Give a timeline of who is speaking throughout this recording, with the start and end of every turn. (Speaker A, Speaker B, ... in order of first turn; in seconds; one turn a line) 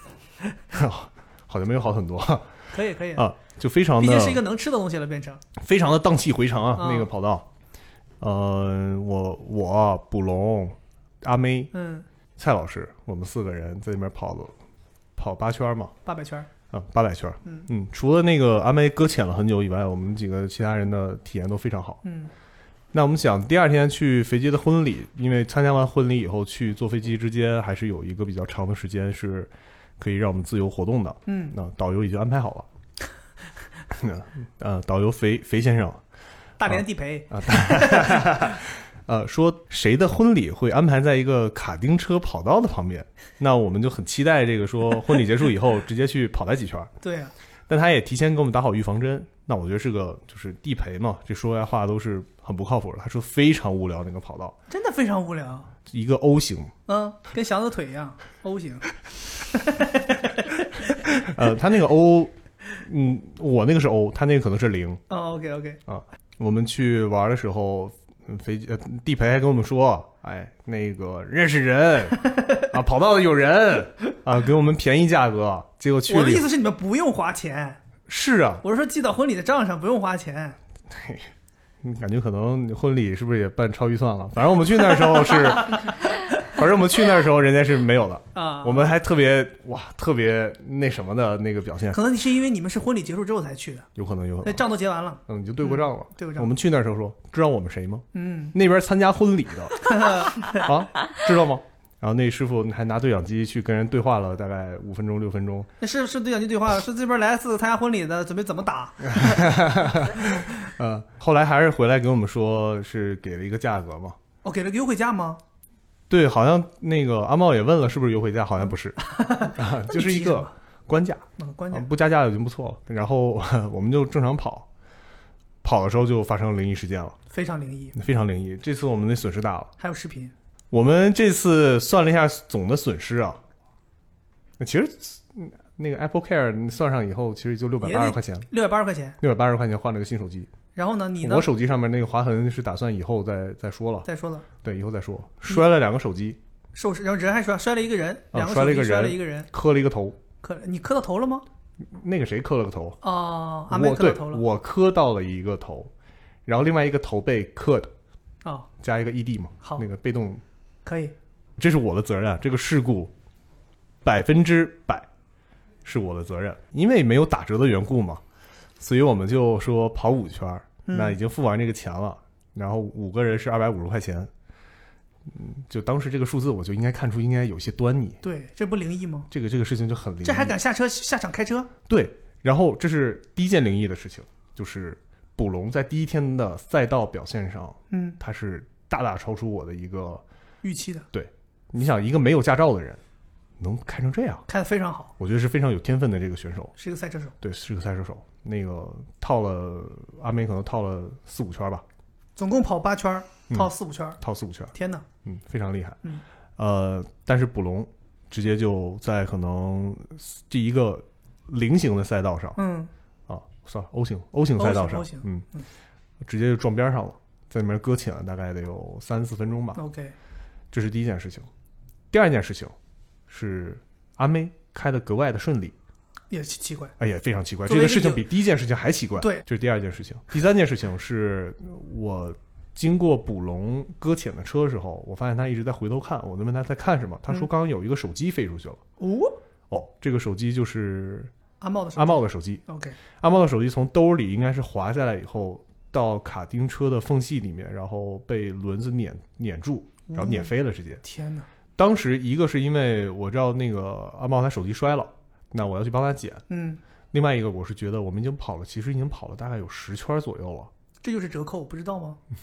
Speaker A: 0.7-2.6
Speaker B: 2.7-3.3
Speaker A: 3.1-4.4
Speaker B: 4.0-5.5
Speaker A: 5.6-7.5
Speaker B: 6.8-7.1
Speaker A: 8.2-11.7
Speaker B: 11.7-12.1
Speaker A: 12.4-14.6
Speaker A: 15.2-16.0
Speaker B: 16.1-16.5
Speaker A: 16.7-22.0
Speaker B: 17.4-17.7
Speaker B: 22.0-22.3
Speaker A: 22.9-32.7
Speaker B: 31.3-31.6
Speaker A: 34.0-36.0
Speaker B: 36.6-38.5
Speaker A: 36.7-46.9
Speaker B: 47.0-47.3
Speaker A: 47.7-54.6
Speaker B: 54.7-55.7
Speaker A: 55.9-56.7
Speaker B: 56.9-58.9
Speaker B: 59.5-60.5
Speaker A: 61.3-65.0
Speaker B: 65.1-65.8
Speaker A: 65.9-76.5
Speaker B: 76.1-77.8
Speaker A: 78.1-78.6
Speaker B: 78.6-80.6
Speaker A: 80.9-81.3
Speaker A: 81.8-85.9
Speaker B: 85.4-85.8
Speaker A: 86.5-92.0
Speaker B: 88.3-88.9
Speaker B: 91.9-93.9
Speaker A: 94.0-94.7
Speaker B: 94.4-96.5
Speaker A: 95.3-105.7
Speaker B: 98.1-98.6
Speaker B: 99.8-100.6
Speaker B: 105.8-109.4
Speaker A: 109.1-114.2
Speaker B: 114.4-115.4
Speaker A: 116.1-124.7
Speaker B: 119.0-120.5
Speaker B: 121.4-121.9
Speaker A: 125.6-127.2
Speaker B: 127.3-128.0
Speaker A: 128.0-129.7
Speaker B: 129.8-130.3
Speaker A: 130.7-133.4
Speaker A: 134.6-138.5
Speaker B: 137.8-139.2
Speaker A: 139.2-140.5
Speaker B: 140.8-141.5
Speaker A: 141.2-144.1
Speaker B: 144.1-144.5
Speaker A: 144.6-146.4
Speaker B: 146.8-149.5
Speaker A: 148.3-150.2
Speaker B: 150.4-151.5
Speaker A: 151.9-153.0
Speaker B: 153.0-154.4
Speaker A: 153.7-155.9
Speaker A: 156.5-157.9
Speaker B: 158.4-158.7
Speaker A: 158.8-160.4
Speaker B: 160.8-161.1
Speaker A: 161.6-163.1
Speaker A: 164.0-165.1
Speaker A: 165.8-168.2
Speaker A: 168.8-174.3
Speaker B: 170.9-171.2
Speaker A: 175.3-178.2
Speaker B: 178.2-179.3
Speaker A: 179.3-180.6
Speaker B: 180.2-181.7
Speaker A: 181.9-190.2
Speaker B: 187.9-188.2
Speaker B: 190.6-191.1
Speaker A: 191.1-193.0
Speaker A: 193.6-194.4
Speaker B: 194.5-195.1
Speaker A: 195.2-196.7
Speaker B: 196.8-197.3
Speaker A: 197.4-201.8
Speaker B: 202.4-204.2
Speaker A: 203.5-206.0
Speaker B: 204.8-205.1
Speaker A: 206.6-212.6
Speaker B: 212.6-212.9
Speaker A: 213.3-215.5
Speaker B: 214.6-215.7
Speaker A: 216.3-219.8
Speaker B: 219.8-220.2
Speaker A: 220.7-221.5
Speaker A: 222.1-222.8
Speaker A: 223.3-225.8
Speaker B: 226.3-226.9
Speaker A: 227.0-238.8
Speaker B: 227.7-228.3
Speaker B: 229.2-229.5
Speaker B: 239.0-239.4
Speaker A: 239.7-241.3
Speaker B: 241.6-243.0
Speaker A: 242.0-251.0
Speaker B: 250.1-251.5
Speaker A: 251.8-256.4
Speaker B: 256.5-256.8
Speaker A: 257.1-260.7
Speaker B: 261.0-262.2